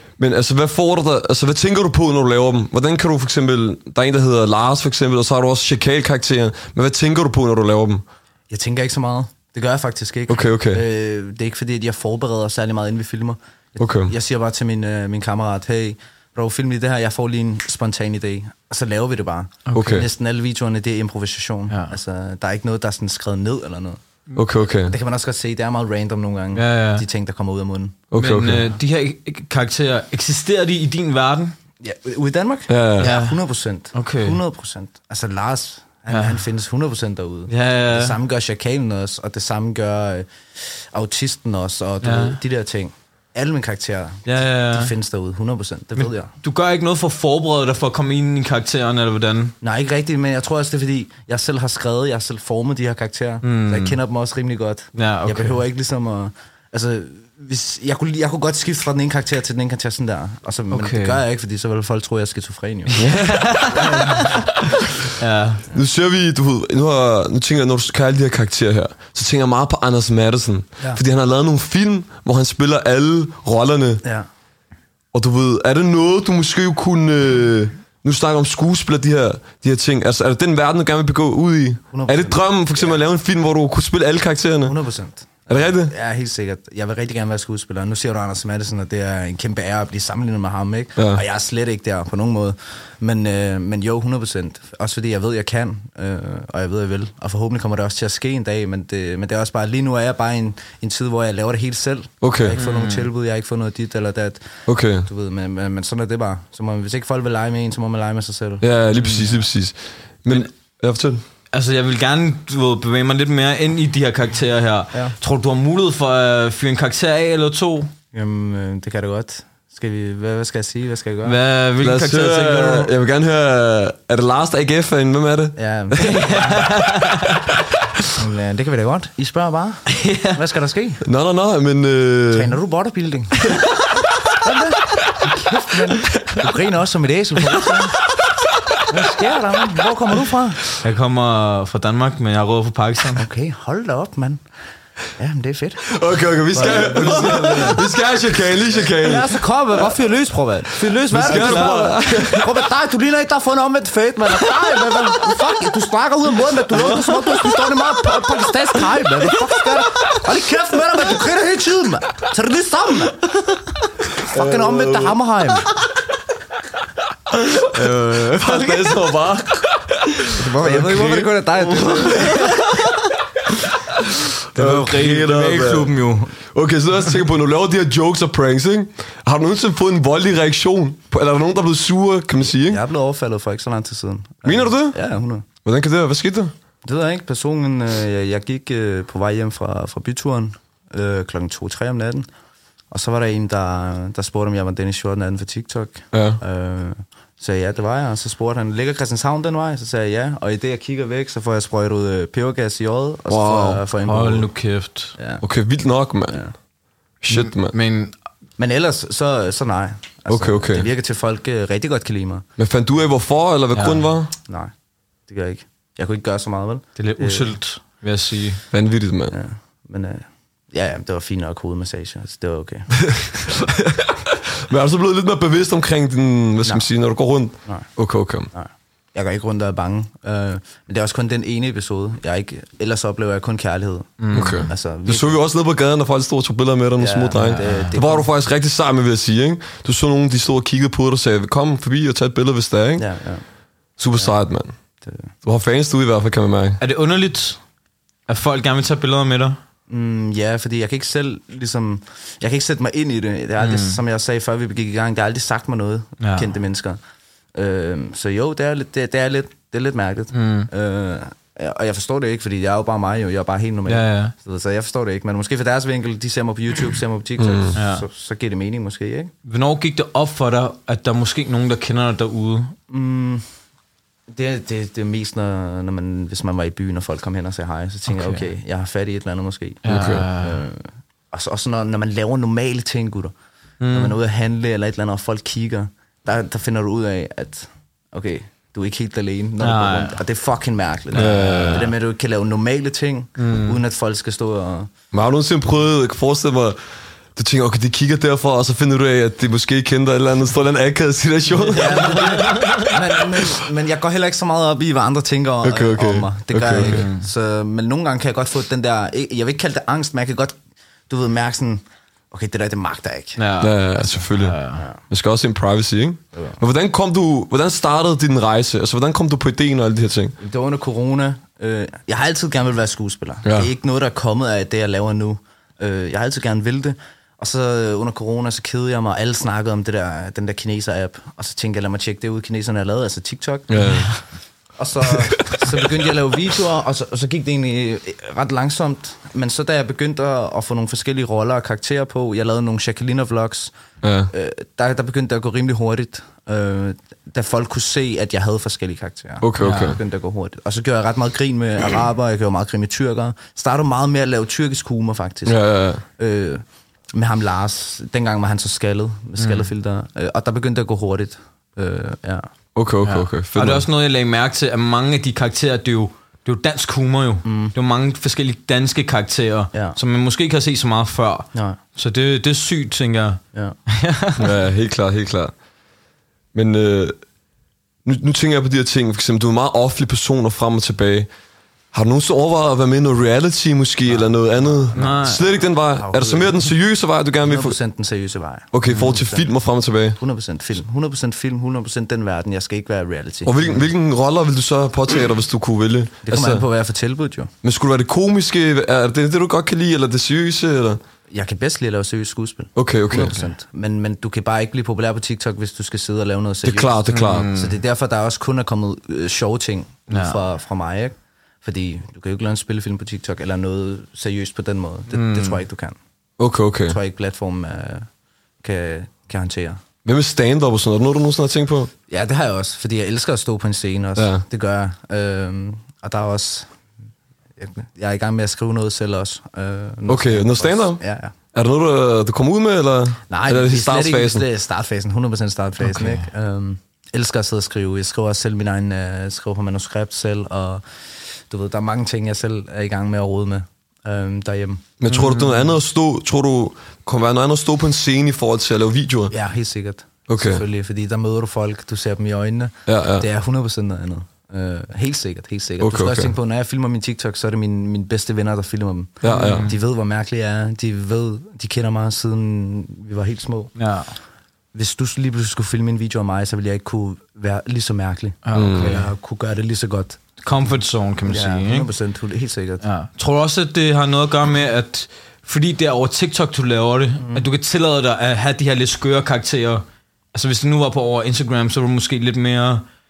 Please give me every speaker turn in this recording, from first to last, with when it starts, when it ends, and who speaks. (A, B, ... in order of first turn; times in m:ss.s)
0:00.2-0:08.0 A
0:08.5-0:24.0 B
0:10.3-0:10.8 A
0:13.8-0:14.1 A
0:19.7-0:20.0 C
0:19.7-0:20.1 A
0:21.7-0:22.0 C
0:24.4-0:24.9 A
0:24.8-0:28.0 B
0:26.5-0:27.0 C
0:28.1-0:28.7 A
0:28.1-0:31.5 C
0:31.8-0:46.3 B
0:32.7-0:33.1 A
0:33.0-0:33.4 C
0:33.9-0:34.4 C
0:36.1-0:36.4 C
0:37.5-0:38.2 C
0:42.0-0:42.4 C
0:44.2-0:44.9 C
0:46.4-0:49.5 C
0:49.6-1:03.0 B
0:53.4-0:54.0 C
0:55.0-0:55.6 C
1:00.7-1:01.2 C
1:02.9-1:04.4 C
1:03.0-1:03.5 A
1:03.6-1:04.4 B
1:05.2-1:05.6 C
1:05.7-1:14.0 A
1:15.1-1:24.8 A
1:21.9-1:23.0 B
1:24.6-1:48.6 B
1:25.5-1:25.9 A
1:31.0-1:31.2 A
1:42.2-1:42.6 A
1:42.5-1:43.1 C
1:44.7-1:45.1 A
1:48.6-1:51.2 A
1:49.0-1:49.4 C
1:51.5-1:57.9 C
1:58.1-2:01.4 B
2:01.2-2:02.9 C
2:01.8-2:06.2 A
2:05.6-2:06.7 B
2:06.0-2:07.4 C
2:08.1-2:11.0 B
2:09.9-2:10.4 C
2:11.0-2:12.5 A
2:12.3-2:13.6 B
2:14.3-2:18.0 B
2:18.9-2:20.6 B
2:20.8-2:23.2 C
2:23.2-2:24.4 B
2:25.2-2:25.9 B
2:25.9-2:29.4 A
2:26.5-2:27.8 B
2:27.2-2:27.5 C
2:28.8-2:43.2 B
2:31.1-2:32.6 A
2:31.2-2:31.9 C
2:44.2-2:45.7 B
2:44.3-2:45.2 A
2:47.4-2:49.0 C
2:47.7-2:52.5 A
2:50.3-2:52.6 B
2:51.8-2:53.0 C
2:54.5-2:56.3 C
2:54.5-2:55.9 A
2:56.5-3:02.8 A
3:02.6-3:05.4 B
3:04.4-3:05.0 A
3:05.6-3:06.5 A
3:06.8-3:12.3 B
3:12.9-3:24.5 B
3:16.1-3:16.4 A
3:23.3-3:23.8 A
3:24.0-3:25.1 C
3:25.2-3:25.4 B
3:25.4-3:26.4 A
3:27.2-3:27.8 A
3:27.3-3:28.1 C
3:28.6-3:32.4 B
3:30.3-3:30.9 A
3:32.6-3:34.3 A
3:33.7-3:34.1 C
3:34.5-3:34.7 B
3:35.3-3:37.6 B
3:37.0-3:38.6 C
3:38.7-3:39.4 A
3:39.3-3:43.0 B
3:43.0-3:48.5 A
3:46.6-3:46.9 B
3:48.5-3:55.4 B
3:54.2-3:54.7 C
3:54.3-4:03.1 A
3:57.0-3:58.3 B
3:57.4-3:57.9 C
4:03.0-4:03.4 B
4:04.0-4:04.7 A
4:05.0-4:05.3 B
4:05.4-4:06.8 A
4:06.8-4:07.6 C
4:08.3-4:09.6 C
4:09.9-4:17.0 B
4:13.6-4:14.0 C
4:16.2-4:16.5 C
4:17.5-4:29.3 B
4:20.3-4:20.7 C
4:23.9-4:24.3 C
4:27.4-4:27.8 A
4:27.7-4:28.0 C
4:29.4-4:32.7 C
4:32.9-4:33.4 B
4:34.3-4:43.3 B
4:38.1-4:38.5 C
4:39.8-4:40.6 C
4:39.8-4:40.2 A
4:43.8-4:44.1 C
4:43.9-4:54.9 B
4:49.6-4:50.2 C
4:51.1-4:51.9 C
4:51.1-4:51.9 A
4:53.4-4:53.8 C
4:55.1-4:56.8 A
4:57.3-5:02.6 A
5:01.7-5:10.6 B
5:01.8-5:02.9 C
5:05.6-5:07.0 A
5:06.7-5:07.3 C
5:11.1-5:13.4 B
5:13.4-5:13.8 C
5:13.6-5:20.3 A
5:14.3-5:14.8 C
5:14.7-5:15.0 B
5:20.4-5:34.2 B
5:33.7-5:34.1 A
5:34.8-5:43.7 B
5:44.0-5:44.3 A
5:44.3-5:55.6 B
5:49.4-5:50.0 A
5:49.6-5:50.0 C
5:55.4-5:56.0 A
5:56.2-6:02.5 B
5:59.4-5:59.7 C
6:02.7-6:03.9 A
6:03.0-6:14.5 C
6:07.4-6:07.7 B
6:11.5-6:11.8 B
6:14.4-6:15.5 A
6:16.5-6:17.2 A
6:18.0-6:21.3 A
6:21.9-6:27.8 A
6:24.1-6:25.3 B
6:24.9-6:25.4 C
6:26.0-6:26.7 B
6:27.4-6:29.5 B
6:28.7-6:30.2 A
6:30.2-6:33.6 B
6:33.4-6:36.6 A
6:36.2-6:37.5 B
6:37.6-6:41.0 A
6:41.3-6:56.0 B
6:42.8-6:43.4 A
6:46.6-6:47.5 A
6:47.1-6:47.8 C
6:50.1-6:50.4 C
6:55.1-6:55.6 C
6:56.4-6:57.0 A
6:56.8-6:58.1 B
6:58.6-6:59.8 B
7:00.0-7:01.9 A
7:02.1-7:06.7 B
7:04.2-7:04.4 A
7:07.6-7:11.3 B
7:10.1-7:11.0 A
7:11.5-7:14.4 A
7:13.3-7:20.8 B
7:15.8-7:16.3 C
7:21.5-7:24.8 B
7:25.0-7:29.3 A
7:25.1-7:25.7 C
7:29.3-7:43.7 B
7:30.3-7:30.6 A
7:32.9-7:33.2 A
7:35.8-7:36.3 A
7:39.2-7:39.7 A
7:39.3-7:39.7 C
7:43.8-7:44.2 C
7:44.7-7:50.2 B
7:48.4-7:49.1 C
7:48.5-7:49.0 A
7:50.4-7:51.9 C
7:51.2-7:52.8 B
7:52.8-8:02.8 C
7:57.2-7:57.4 B